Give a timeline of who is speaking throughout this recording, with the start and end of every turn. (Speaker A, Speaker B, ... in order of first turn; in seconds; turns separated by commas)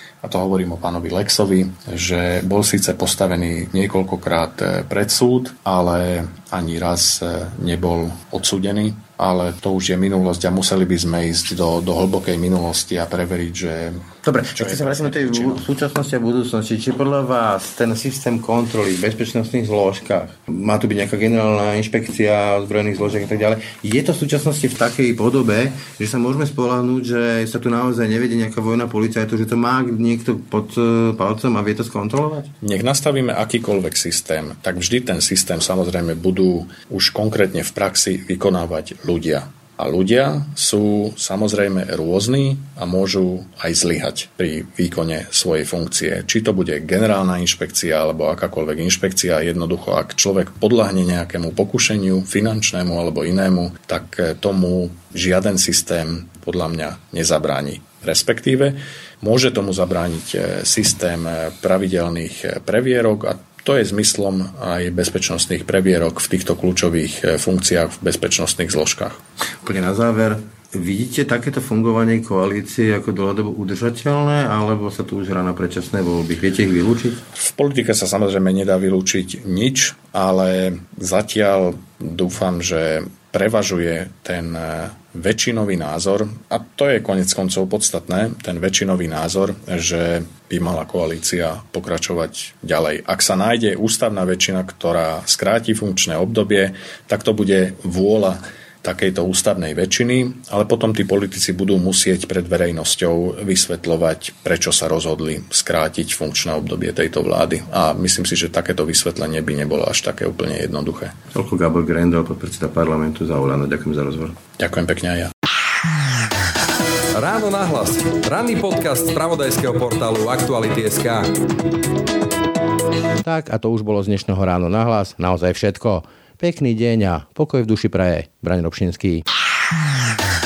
Speaker A: 0.2-14.0, Speaker B: 14.2-32.5, Speaker A: 14.6-15.6, Speaker A: 32.6-69.2, Speaker B: 69.6-77.2, Speaker A: 77.3-111.2, Speaker B: 111.3-114.4, Speaker A: 114.6-115.3, Speaker C: 117.1-121.3, Speaker B: 123.2-129.2